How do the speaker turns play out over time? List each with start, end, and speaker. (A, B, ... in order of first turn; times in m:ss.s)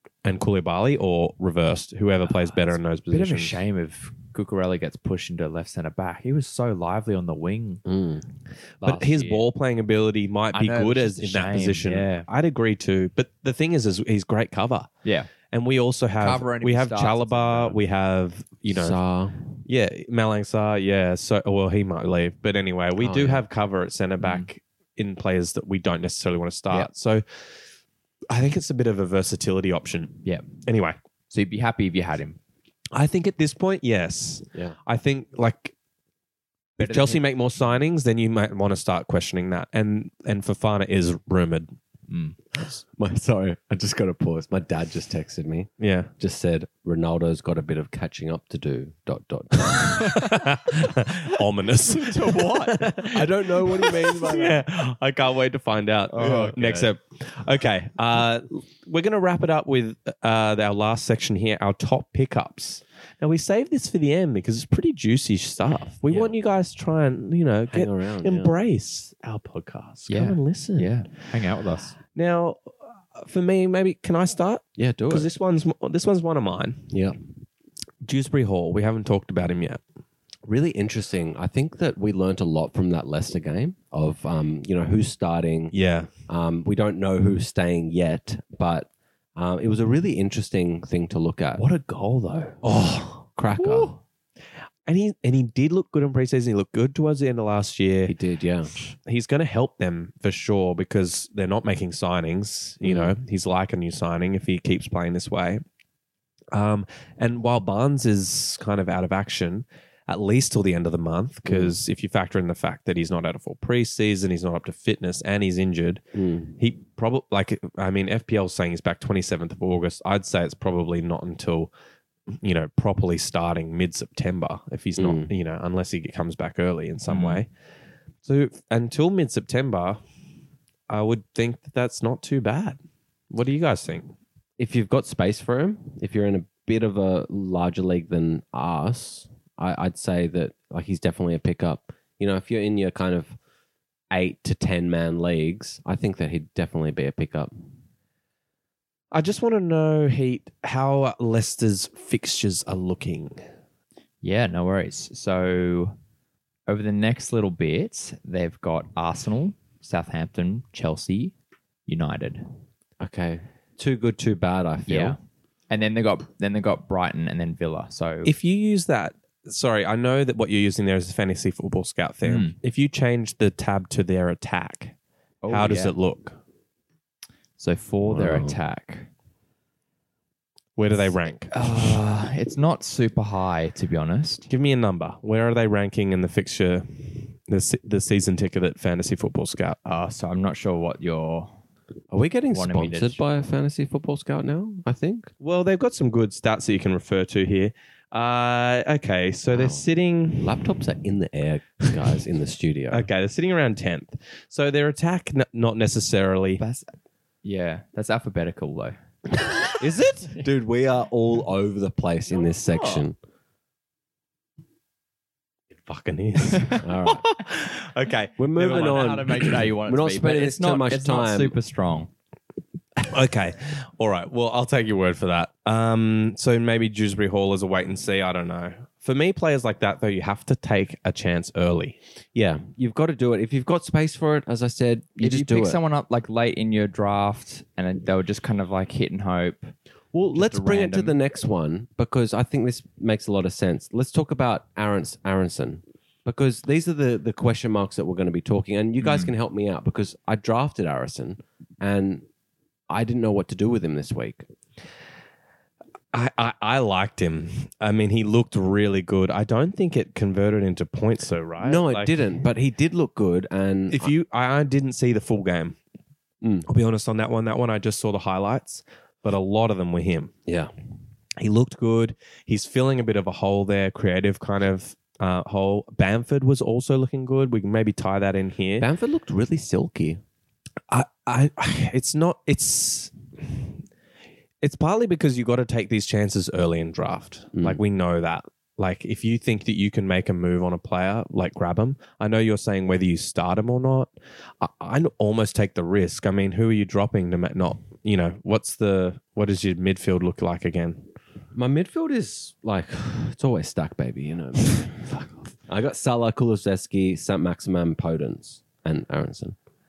0:00.2-0:03.6 A
0:02.2-0:07.8 B
0:07.8-0:08.3 C
0:08.8-0:09.5 B
0:08.8-0:14.9 A
0:10.5-0:12.3 B
0:15.0-0:15.3 B
0:15.5-0:19.0 A
0:16.2-0:17.8 B
0:18.7-0:19.4 C
0:19.7-0:27.2 A
0:23.0-0:23.4 B
0:24.2-0:24.5 B
0:28.3-0:31.0 A
0:31.3-0:32.4 B
0:32.9-0:35.7 A
0:36.8-0:41.7 A
0:36.8-0:37.2 B
0:42.1-0:42.4 B
0:42.6-0:50.2 C
0:45.8-0:46.1 A
0:49.7-1:10.9 A
0:51.8-0:53.1 B
0:52.8-0:54.6 C
0:56.1-0:56.9 B
1:06.1-1:06.4 C
1:07.7-1:08.5 C
1:10.1-1:12.0 B
1:12.1-1:16.9 A
1:14.8-1:15.3 C
1:16.9-1:17.2 C
1:18.0-1:19.8 A
1:20.5-1:25.8 C
1:25.7-1:26.1 A
1:26.3-1:31.6 C
1:31.6-1:32.6 B
1:32.6-1:33.3 A
1:33.3-1:34.0 C
1:33.5-1:34.0 B
1:34.9-1:38.1 A
1:38.1-1:38.8 C
1:38.8-1:45.6 A
1:42.8-1:43.2 C
1:46.5-1:56.0 A
1:51.5-1:51.8 C
1:56.1-1:56.5 C
1:56.6-2:01.7 A
2:02.4-2:07.5 A
2:05.0-2:05.3 C
2:07.1-2:07.4 B
2:08.2-2:10.0 A
2:10.9-2:12.8 A
2:13.3-2:14.1 A
2:14.6-2:23.4 C
2:24.1-2:27.5 C
2:29.1-2:33.4 A
2:34.2-2:36.0 B
2:36.7-2:41.3 B
2:41.9-2:42.5 B
2:43.0-2:45.2 C
2:44.9-2:45.2 B
2:45.7-2:48.3 B
2:48.2-2:55.0 A
2:52.2-2:52.6 B
2:55.4-2:55.9 B
2:55.5-2:56.4 A
2:57.6-2:59.1 B
2:58.0-2:58.6 C
3:00.8-3:01.5 A
3:01.5-3:04.5 B
3:04.5-3:09.8 A
3:09.8-3:11.6 B
3:12.1-3:15.3 C
3:12.5-3:13.2 B
3:15.4-3:20.8 A
3:19.5-3:23.0 C
3:22.9-3:26.6 A
3:26.6-3:29.0 B
3:29.8-3:33.2 C
3:29.8-3:30.3 A
3:35.8-3:39.7 A
3:36.5-3:36.8 B
3:36.7-3:37.3 C
3:38.4-3:41.5 C
3:38.6-3:42.1 B
3:43.1-3:52.0 A
3:52.4-3:55.8 C
3:55.2-3:59.7 B
4:00.1-4:12.2 C
4:00.3-4:01.2 B
4:12.9-4:14.5 C
4:16.1-4:22.2 A
4:21.6-4:24.1 C
4:23.9-4:25.8 A
4:26.4-4:26.7 C
4:26.7-4:30.3 A
4:30.5-4:30.7 C
4:31.4-4:38.9 A
4:38.8-4:40.2 C
4:40.9-4:43.7 A
4:44.6-5:01.1 A
4:47.6-4:47.8 C
5:01.6-5:05.1 C
5:05.7-5:09.6 C